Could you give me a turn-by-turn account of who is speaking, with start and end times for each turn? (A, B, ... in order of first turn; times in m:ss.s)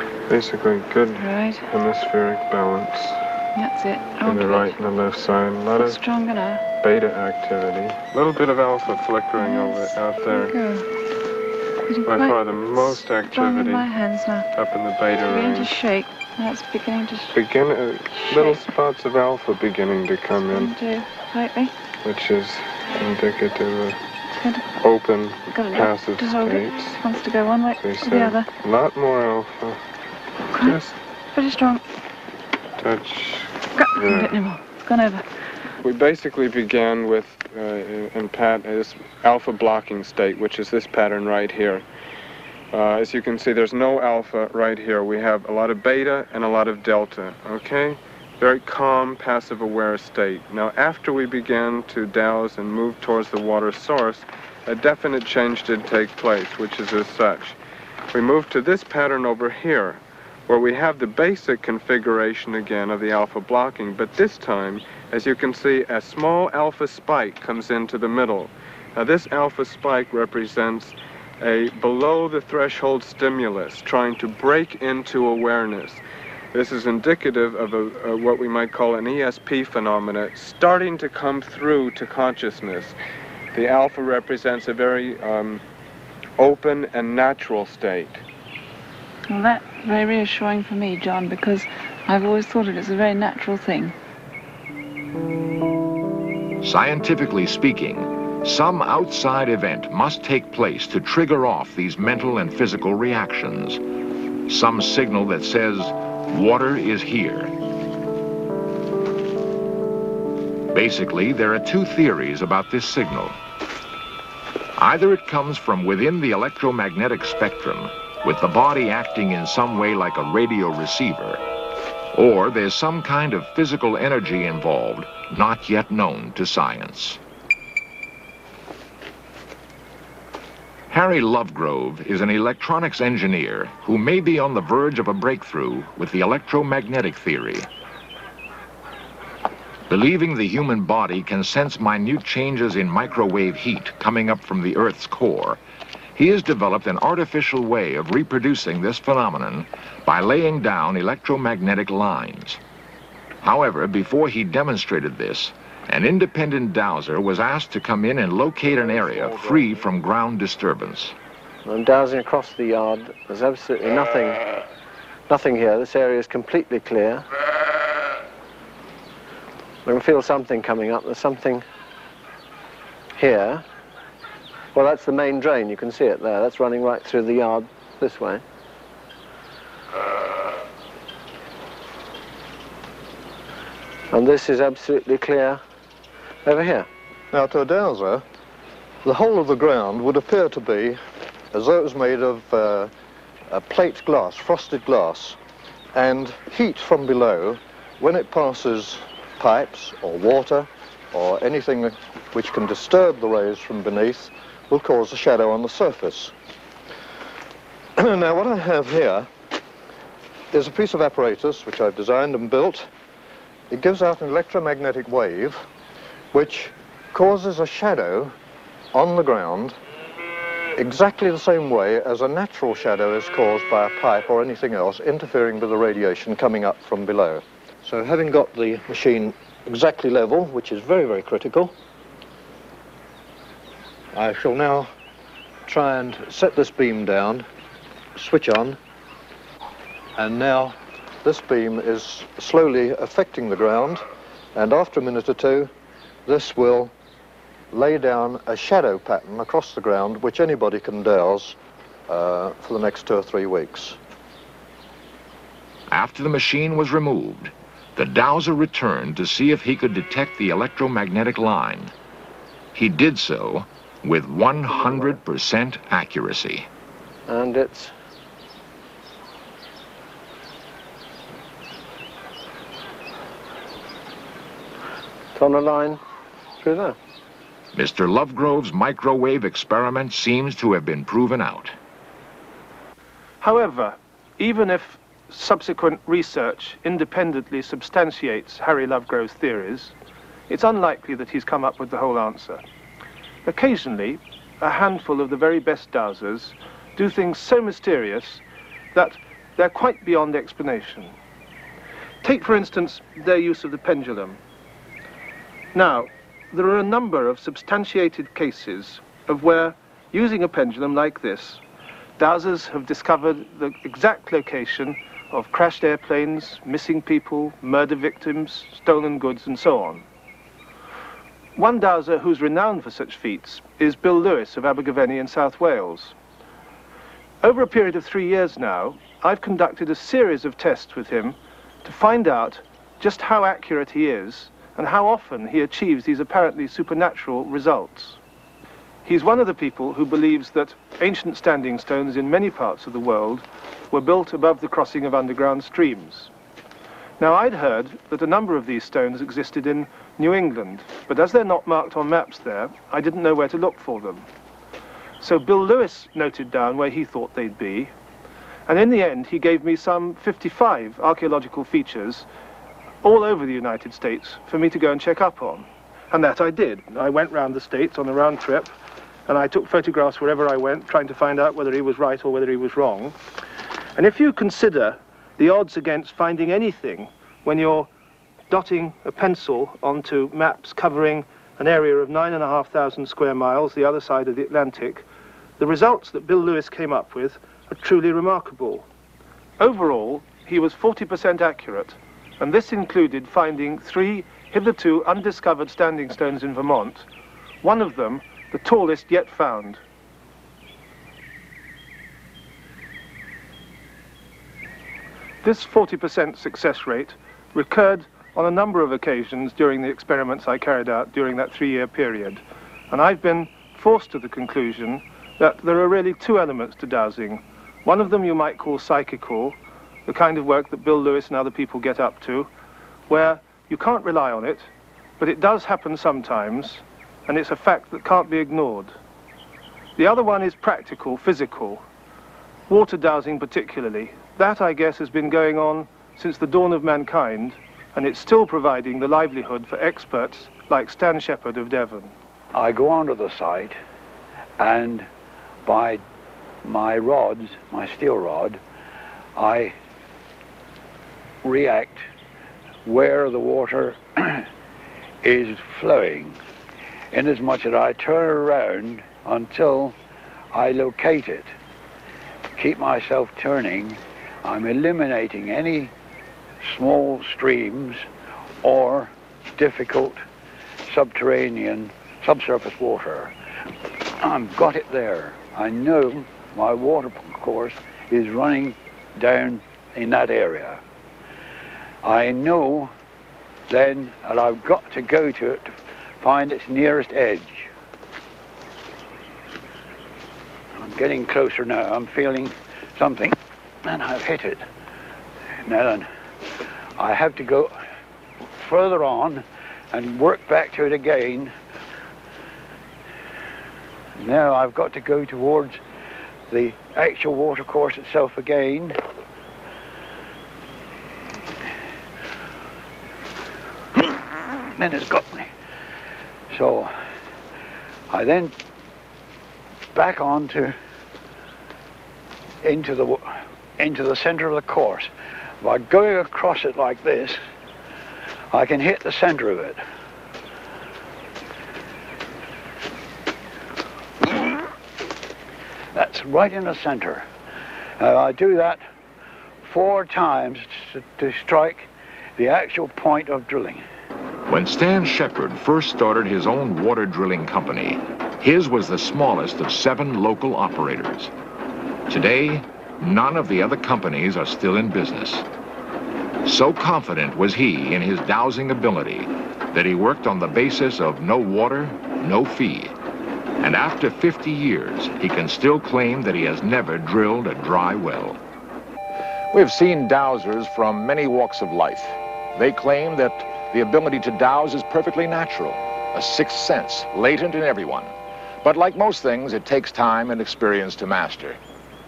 0:00.3-0:03.2 A
0:01.2-0:01.6 B
0:03.5-0:04.7 B
0:04.2-0:06.0 A
0:05.8-0:06.6 B
0:06.8-0:10.5 A
0:09.4-0:10.8 B
0:11.8-0:14.4 B
0:12.0-0:13.9 A
0:14.5-0:15.7 A
0:15.3-0:17.4 B
0:17.3-0:20.7 A
0:18.3-0:18.6 B
0:20.5-0:21.7 B
0:22.0-0:24.0 A
0:24.3-0:24.8 B
0:24.8-0:27.0 A
0:25.5-0:28.5 B
0:27.8-0:29.8 A
0:30.5-0:30.8 B
0:30.6-0:30.9 A
0:31.3-0:31.8 B
0:32.8-0:34.4 A
0:33.8-0:35.2 B
0:35.8-0:41.8 A
0:42.7-0:57.6 A
0:58.1-1:16.0 A
1:16.5-1:22.9 A
1:23.5-1:25.6 A
1:26.4-1:28.2 A
1:29.3-1:33.9 B
1:36.6-1:43.8 C
1:44.5-1:47.5 C
1:50.7-1:53.4 C
1:54.8-2:01.4 C
2:02.1-2:07.2 C
2:10.9-2:17.7 C
2:19.9-2:25.6 C
2:26.2-2:32.6 C
2:33.4-2:41.1 C
2:41.6-2:44.4 D
2:45.3-2:47.2 D
2:49.8-2:51.6 D
2:53.2-2:53.6 D
2:54.7-2:58.4 D
3:04.1-3:05.6 D
3:06.4-3:06.9 D
3:07.3-3:08.2 E
3:09.0-3:11.0 E
3:11.5-3:12.9 E
3:13.5-3:15.4 E
3:15.9-3:26.3 E
3:28.0-3:29.3 E
3:30.5-3:32.9 E
3:33.7-3:35.6 E
3:36.3-3:38.3 E
3:38.9-3:39.8 E
3:40.8-3:51.7 E
3:54.1-3:54.9 E
3:55.7-3:57.4 E
3:58.2-3:58.8 E
4:00.2-4:04.0 E
4:04.5-4:05.7 E
4:06.2-4:06.9 E
4:07.7-4:11.6 E
4:12.1-4:14.0 E
4:15.9-4:21.9 C
4:22.7-4:26.7 C
4:27.3-4:27.9 D
4:35.3-4:36.0 D
4:36.6-4:37.0 D
4:37.7-4:41.8 C
4:43.4-4:49.9 F
4:50.5-4:52.6 F
4:53.4-4:58.4 F
4:58.9-5:01.1 F
5:02.2-5:04.4 F
5:05.7-5:11.6 F
5:12.2-5:20.0 F
5:21.6-5:26.1 F
5:27.4-5:38.2 F
5:39.0-5:46.3 F
5:47.2-5:54.2 F
5:55.2-5:57.9 F
5:58.7-6:02.2 F
6:03.0-6:08.7 F
6:09.3-6:13.2 F
6:14.0-6:17.9 F
6:18.5-6:25.0 F
6:25.6-6:28.8 F
6:29.6-6:37.0 F
6:37.6-6:39.8 F
6:45.4-7:02.5 F
7:03.1-7:04.7 F
7:05.2-7:08.9 F
7:10.0-7:11.8 F
7:12.7-7:22.1 F
7:22.5-7:23.8 G
7:24.6-7:25.1 G
7:25.6-7:26.0 G
7:26.6-7:28.6 G
7:29.4-7:29.7 G
7:31.4-7:32.0 G
7:32.8-7:34.5 G
7:35.2-7:36.4 G
7:37.1-7:39.9 G
7:40.5-7:41.5 G
7:42.6-7:45.9 G
7:46.6-7:48.1 G
7:48.6-7:50.2 G
7:50.9-7:53.3 G
7:54.2-8:00.8 G
8:02.0-8:02.9 G
8:03.7-8:07.7 G
8:10.8-8:14.6 G
8:15.6-8:16.1 G
8:17.0-8:17.7 G
8:18.5-8:21.5 G
8:24.2-8:25.8 G
8:26.5-8:29.0 G
8:34.8-8:35.5 G
8:36.5-8:36.9 G
8:38.1-8:38.5 G
8:39.9-8:40.8 G
8:42.6-8:47.4 G
8:48.5-8:49.8 G
8:55.9-8:57.3 G
8:58.0-8:58.8 G
8:59.6-9:03.8 G
9:04.5-9:11.3 C
9:12.1-9:15.4 C
9:16.4-9:22.9 C
9:23.6-9:28.4 C
9:29.5-9:38.1 C
9:38.6-9:41.6 C